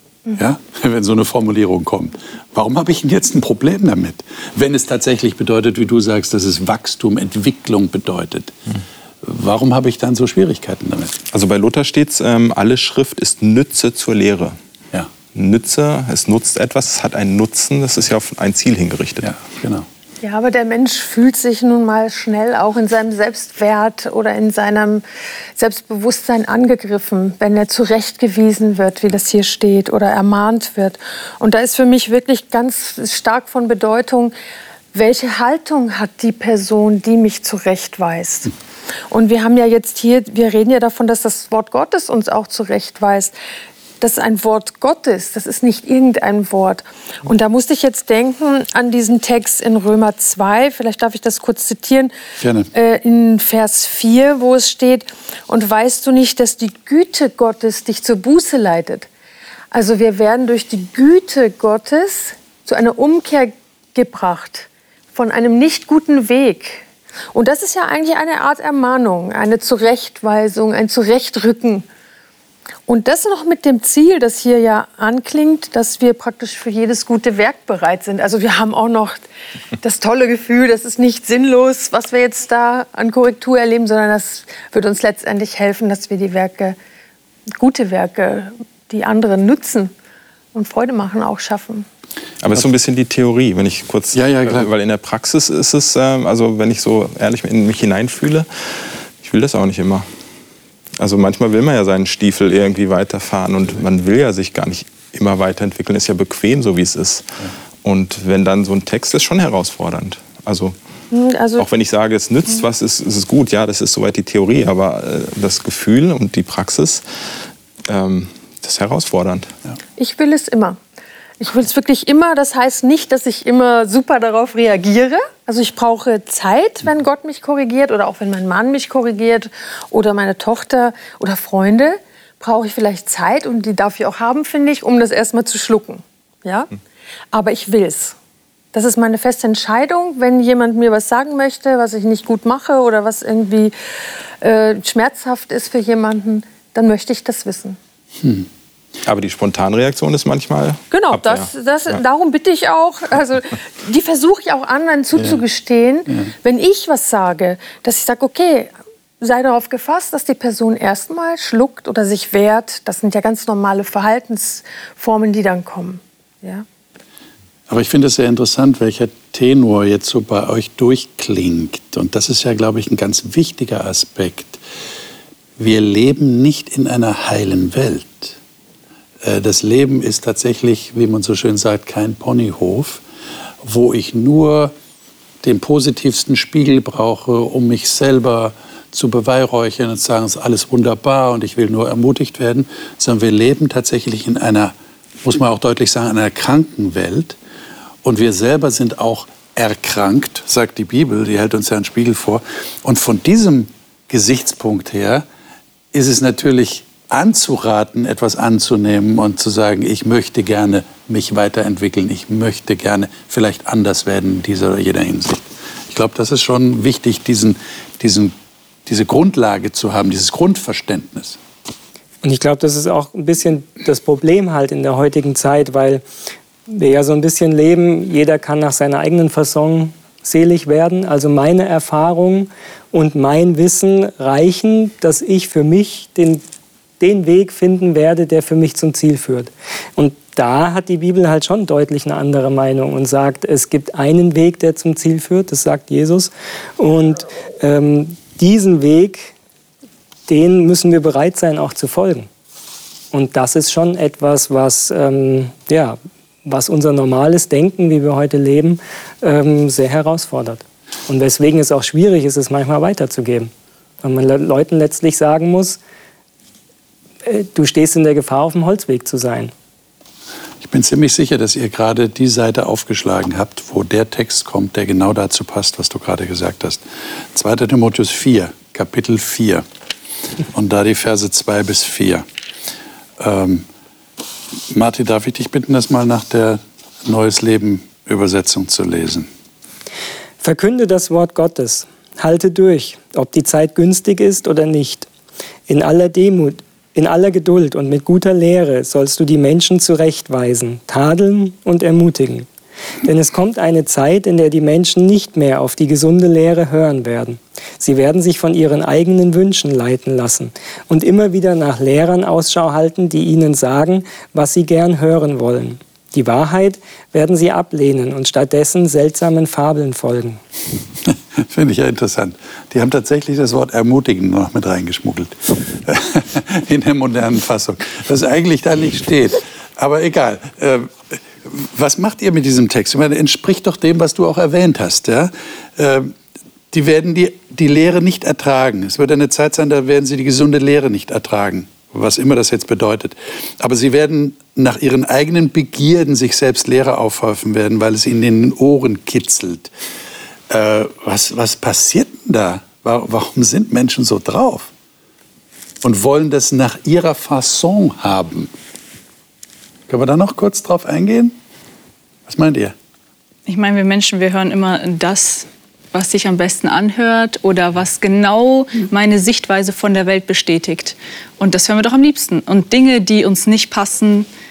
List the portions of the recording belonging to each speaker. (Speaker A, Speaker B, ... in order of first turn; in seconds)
Speaker A: 0.3-8.6, 9.2-11.2, 19.2-19.9, 52.4-52.7, 94.1-94.7, 148.2-148.5, 167.7-174.6, 175.6-178.4, 179.2-183.0, 183.6-184.7, 185.4-197.4, 198.0-205.2, 205.9-218.3, 218.9-221.4, 270.6-279.6, 280.5-282.2, 283.2-283.7, 284.7-289.3, 321.1-336.1, 336.7-349.7, 350.5-354.7, 355.8-358.5, 359.9-361.4, 362.2-362.8
Speaker B: 11.3-14.6, 15.3-19.3, 92.4-100.1, 101.0-107.3, 107.8-110.8, 111.6-117.0, 117.9-119.5, 149.0-151.5
Speaker C: 20.2-25.0, 25.6-34.3, 34.9-38.5, 39.1-43.3, 44.0-52.1, 52.7-59.1, 59.7-71.9, 72.9-79.2, 79.8-86.8, 87.6-89.9, 90.5-91.9, 111.1-111.7, 120.0-120.8, 121.4-136.8, 137.3-138.2, 138.7-143.8, 144.4-147.8, 150.9-166.7
Speaker D: 222.2-226.0, 226.7-236.4, 237.0-249.3, 250.3-252.3, 253.1-263.5, 264.0-265.8, 267.2-269.5, 290.4-295.1, 295.7-302.5, 303.0-320.4
Speaker E: 363.5-374.3